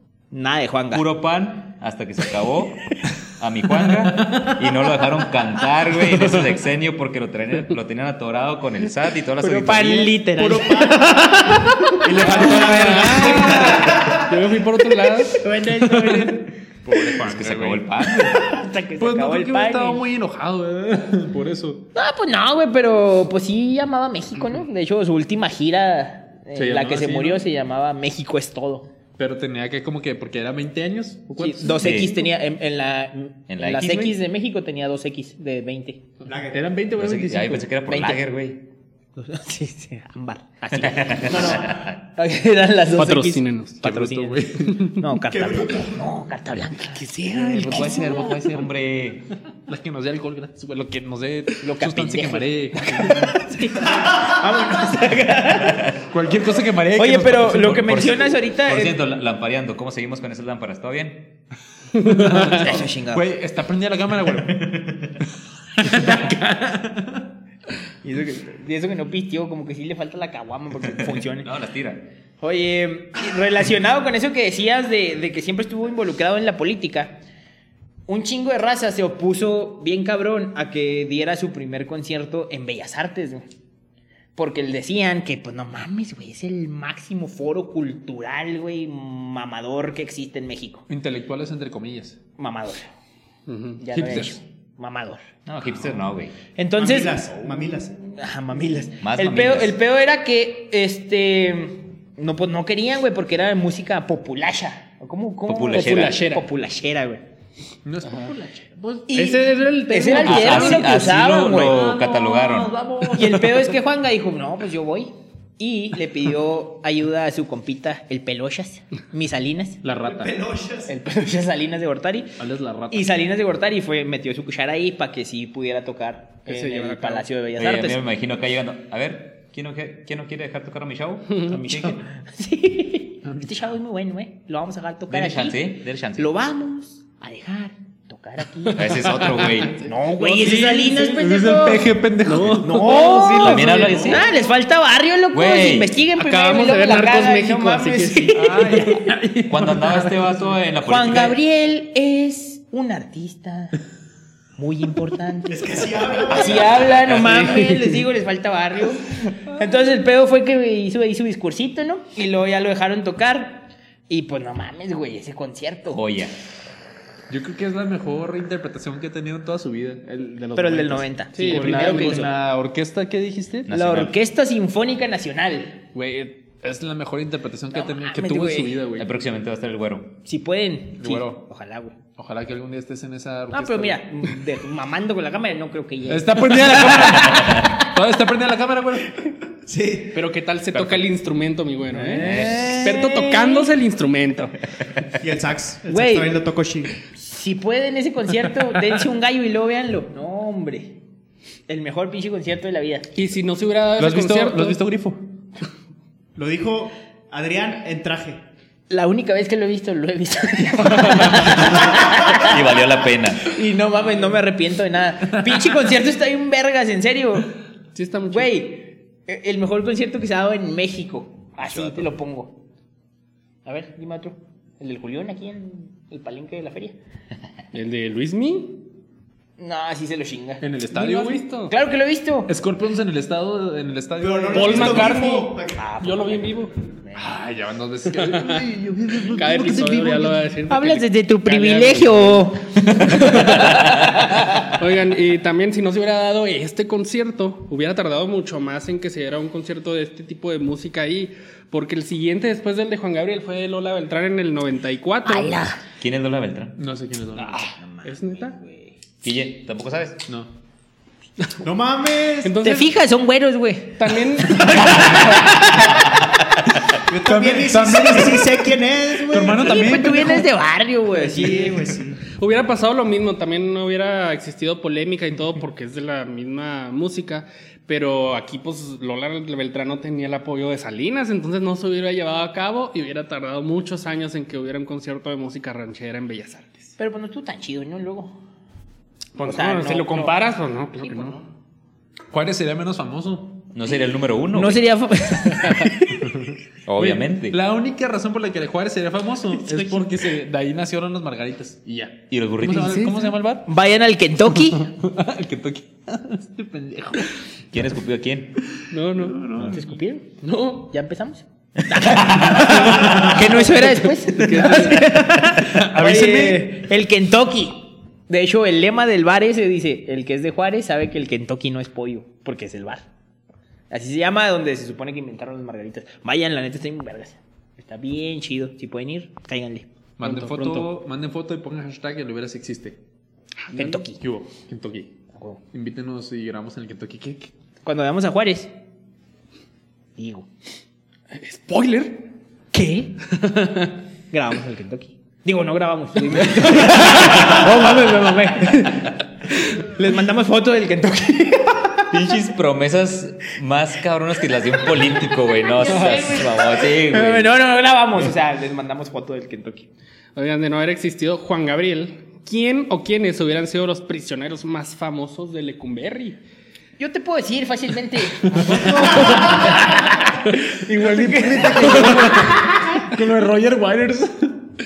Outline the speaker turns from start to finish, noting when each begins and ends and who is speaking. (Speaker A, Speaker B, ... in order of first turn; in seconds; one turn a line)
Speaker A: 0.3-1.1
Speaker B: 0.9-10.2
Speaker C: 4.2-4.5
Speaker A: 9.4-12.0
Speaker D: 10.3-11.3
Speaker D: 12.0-14.2
Speaker C: 12.1-13.9
Speaker E: 12.2-15.4
Speaker A: 15.3-16.9
Speaker C: 15.8-18.4
Speaker B: 17.2-18.4
Speaker A: 18.3-20.0
Speaker C: 19.0-21.9
Speaker A: 21.9-28.9
Speaker C: 26.5-27.4
Speaker C: 29.2-32.2
Speaker A: 31.4-36.0
Speaker B: 31.8-32.1
Speaker B: 33.5-34.2
Speaker D: 36.2-36.6
Speaker C: 36.3-37.7
Speaker B: 36.9-38.6
Speaker A: 37.9-38.3
Speaker A: 39.1-48.4
Speaker B: 40.8-42.0
Speaker E: 42.9-43.8
Speaker C: 43.8-44.9
Speaker D: 45.3-46.0
Speaker C: 46.9-48.7
Speaker B: 47.9-49.3
Speaker C: 49.7-53.4
Speaker A: 51.6-55.9
Speaker B: 55.5-56.0
Speaker C: 56.1-58.2
Speaker A: 56.9-59.0
Speaker B: 57.7-61.3
Speaker E: 62.0-62.5
Speaker C: 62.0-64.7
Speaker A: 62.2-63.2
Speaker B: 64.4-65.2
Speaker C: 65.8-67.2
Speaker A: 68.0-71.5
Speaker B: 70.9-72.1
Speaker A: 72.4-77.2
Speaker A: 78.1-83.5
Speaker A: 84.3-90.8
Speaker C: 90.9-92.2
Speaker A: 92.4-92.9
Speaker E: 93.5-93.8
Speaker A: 93.8-95.2
Speaker C: 93.9-94.3
Speaker B: 95.5-96.3
Speaker A: 96.5-107.2
Speaker D: 96.8-97.9
Speaker B: 99.0-99.8
Speaker B: 105.5-106.3
Speaker E: 105.7-106.5
Speaker C: 107.8-109.0
Speaker A: 109.0-111.8
Speaker E: 109.1-111.0
Speaker B: 110.2-112.8
Speaker C: 111.3-113.7
Speaker A: 113.1-119.8
Speaker C: 119.8-120.4
Speaker D: 120.0-120.9
Speaker A: 120.9-122.4
Speaker C: 122.4-123.2
Speaker A: 122.9-128.0
Speaker E: 126.5-127.3
Speaker B: 127.5-132.0
Speaker C: 131.5-132.0
Speaker A: 132.2-149.1
Speaker C: 133.2-133.6
Speaker B: 135.1-136.3
Speaker B: 138.7-139.8
Speaker E: 139.1-139.9
Speaker C: 140.2-144.2
Speaker E: 142.2-143.9
Speaker B: 143.4-144.2
Speaker B: 145.3-146.0
Speaker E: 146.1-149.0
Speaker C: 148.3-150.5
Speaker B: 149.4-151.4
Speaker A: 150.8-153.8
Speaker A: 154.6-166.1
Speaker D: 155.5-156.9
Speaker B: 156.9-157.4
Speaker E: 157.4-157.9
Speaker B: 165.9-166.3
Speaker C: 167.3-173.7
Speaker A: 170.5-172.3
Speaker E: 171.3-172.3
Speaker B: 173.7-174.2
Speaker A: 173.7-175.8
Speaker C: 175.9-179.1
Speaker A: 177.7-178.8
Speaker B: 178.9-180.2
Speaker A: 180.2-181.9
Speaker C: 181.0-181.4
Speaker C: 182.2-184.0
Speaker A: 183.5-187.8
Speaker C: 186.1-189.2
Speaker B: 187.3-187.7
Speaker D: 189.6-190.2
Speaker E: 190.1-194.6
Speaker C: 190.7-191.1
Speaker C: 191.9-192.6
Speaker A: 192.2-193.7
Speaker B: 192.2-192.8
Speaker D: 195.2-197.0
Speaker A: 195.9-196.3
Speaker A: 197.1-201.0
Speaker A: 201.7-203.1
Speaker E: 203.1-204.8
Speaker C: 204.0-205.2
Speaker D: 206.3-208.4
Speaker A: 208.9-212.6
Speaker B: 211.9-213.5
Speaker A: 213.4-217.5
Speaker C: 215.4-215.7
Speaker E: 217.9-218.6
Speaker A: 218.3-222.6
Speaker A: 223.6-227.0
Speaker E: 227.7-228.9
Speaker A: 229.6-230.6
Speaker C: 230.6-231.4
Speaker E: 230.9-231.7
Speaker A: 231.7-232.5
Speaker C: 232.5-235.2
Speaker D: 234.2-235.9
Speaker E: 234.5-236.8
Speaker A: 235.7-237.4
Speaker C: 237.1-240.5
Speaker E: 238.2-238.6
Speaker E: 239.3-255.6
Speaker A: 240.7-243.3
Speaker A: 255.2-255.8
Speaker B: 256.0-256.8
Speaker C: 256.8-257.7
Speaker A: 257.4-258.9
Speaker E: 258.0-258.6
Speaker B: 259.2-260.2
Speaker D: 261.6-262.6
Speaker E: 262.4-262.9
Speaker A: 262.6-265.5
Speaker E: 264.0-265.9
Speaker C: 264.7-265.4
Speaker D: 267.0-270.0
Speaker C: 267.2-270.5
Speaker A: 269.6-272.0
Speaker D: 271.1-272.2
Speaker E: 272.4-286.9
Speaker A: 287.0-288.4
Speaker E: 289.4-291.4
Speaker A: 289.4-290.4
Speaker A: 291.0-291.4
Speaker C: 292.3-293.6
Speaker B: 293.7-294.8
Speaker A: 294.5-296.3
Speaker B: 296.9-297.6
Speaker C: 297.0-303.7
Speaker B: 302.3-303.1
Speaker A: 303.6-304.9
Speaker C: 304.7-307.4
Speaker B: 307.7-308.6
Speaker E: 308.9-309.5
Speaker C: 309.1-309.8
Speaker A: 309.6-323.0
Speaker E: 310.4-310.7
Speaker C: 312.4-313.6
Speaker C: 314.4-316.8
Speaker E: 314.4-315.0
Speaker A: 323.9-329.9
Speaker C: 330.2-333.0
Speaker E: 330.2-330.9
Speaker E: 333.7-334.0
Speaker A: 333.7-334.2
Speaker C: 334.1-335.1
Speaker A: 335.3-335.6
Speaker C: 335.7-337.5
Speaker A: 337.8-338.7
Speaker A: 340.1-340.5
Speaker E: 341.3-342.3
Speaker A: 342.7-343.2
Speaker E: 343.3-343.9
Speaker A: 344.3-352.0
Speaker E: 346.4-347.4
Speaker B: 352.1-357.5
Speaker A: 355.7-359.9
Speaker E: 360.3-366.4
Speaker A: 367.0-373.0
Speaker C: 368.5-369.7
Speaker E: 368.6-369.7
Speaker C: 370.8-374.5
Speaker E: 371.8-372.5